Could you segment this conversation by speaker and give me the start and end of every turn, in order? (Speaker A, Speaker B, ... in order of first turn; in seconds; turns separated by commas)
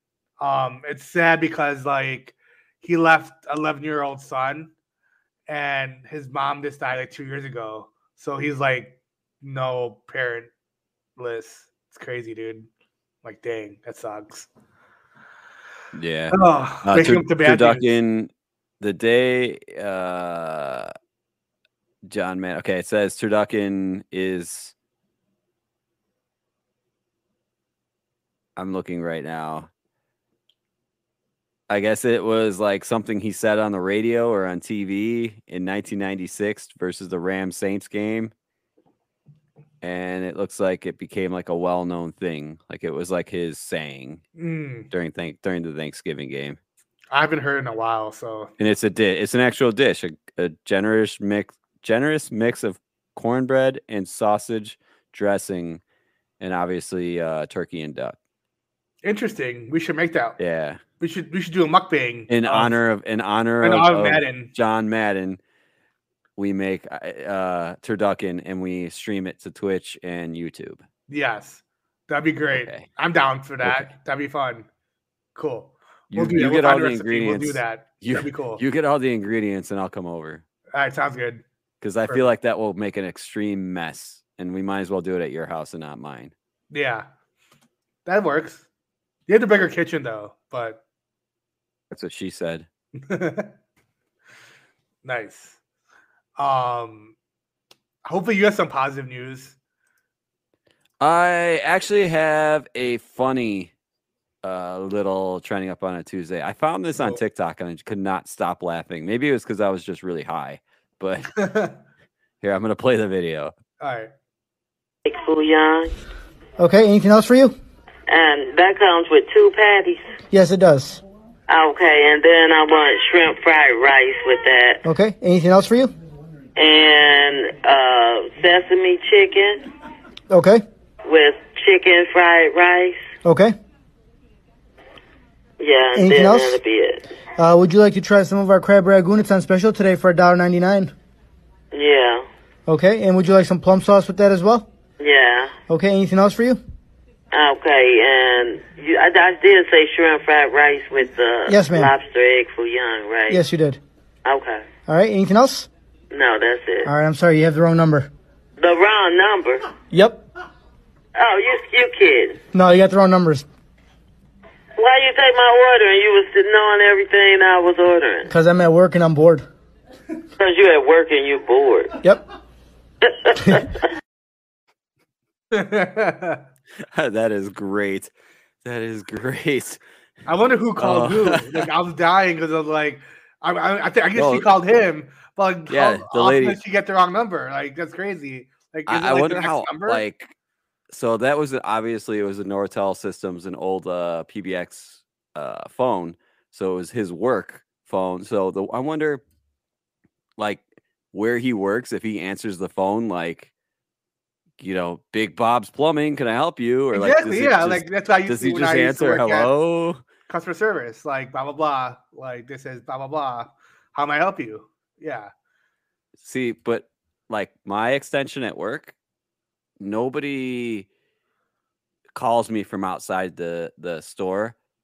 Speaker A: 0.4-4.7, Speaker A: 5.5-10.5, Speaker A: 11.2-12.7, Speaker A: 13.2-14.5, Speaker B: 15.9-20.9, Speaker A: 16.3-17.9, Speaker B: 22.1-24.7, Speaker B: 28.6-29.7, Speaker B: 31.7-38.3, Speaker B: 39.8-44.2, Speaker A: 44.4-44.9, Speaker B: 44.9-46.6, Speaker A: 47.1-48.5, Speaker B: 48.6-55.8, Speaker B: 56.4-58.2, Speaker A: 59.0-60.4, Speaker B: 60.4-60.8, Speaker A: 61.0-62.8, Speaker B: 62.3-65.4, Speaker A: 63.6-64.5, Speaker B: 66.4-70.8, Speaker A: 71.1-74.7, Speaker B: 72.5-72.9, Speaker B: 73.6-73.9, Speaker A: 75.3-78.6, Speaker B: 76.1-80.4, Speaker A: 80.7-81.4, Speaker B: 81.8-86.3, Speaker A: 86.7-87.1, Speaker A: 88.0-88.7, Speaker A: 89.3-90.8, Speaker B: 91.9-92.7, Speaker A: 93.0-93.5, Speaker A: 95.0-95.6, Speaker A: 96.4-97.1, Speaker A: 98.0-99.5, Speaker B: 101.0-103.7, Speaker B: 104.4-111.3, Speaker A: 111.4-111.8, Speaker B: 112.4-113.5, Speaker A: 113.8-114.1, Speaker C: 115.0-115.9, Speaker D: 116.6-117.5, Speaker C: 118.1-120.0, Speaker D: 120.3-121.0, Speaker C: 121.5-124.8, Speaker D: 124.8-125.9, Speaker C: 126.5-129.6, Speaker D: 130.3-130.6, Speaker C: 131.1-133.0, Speaker D: 133.2-133.6, Speaker C: 135.6-137.0, Speaker D: 135.9-136.6, Speaker D: 137.4-140.9, Speaker C: 141.7-142.2, Speaker D: 142.7-144.7, Speaker C: 145.0-145.5, Speaker D: 145.7-146.6, Speaker C: 147.3-153.4, Speaker D: 151.5-151.9, Speaker D: 153.3-153.8, Speaker C: 154.2-154.7, Speaker D: 154.9-155.7, Speaker C: 156.1-156.9, Speaker D: 156.8-158.1, Speaker C: 158.6-159.6, Speaker D: 159.9-160.2, Speaker C: 161.2-162.4, Speaker D: 162.5-163.4, Speaker C: 164.8-168.3, Speaker D: 168.3-169.5, Speaker C: 170.4-171.9, Speaker C: 173.0-173.6, Speaker A: 175.5-176.4, Speaker B: 176.9-178.1, Speaker B: 178.6-179.8, Speaker A: 180.3-190.0, Speaker B: 180.8-181.7, Speaker B: 184.1-184.5, Speaker B: 185.7-186.6, Speaker B: 188.9-190.3, Speaker B: 190.9-199.2, Speaker B: 200.4-203.5, Speaker B: 204.6-210.0, Speaker A: 206.9-209.5, Speaker A: 210.3-215.3, Speaker B: 216.2-218.9, Speaker B: 219.8-220.9, Speaker B: 222.1-224.6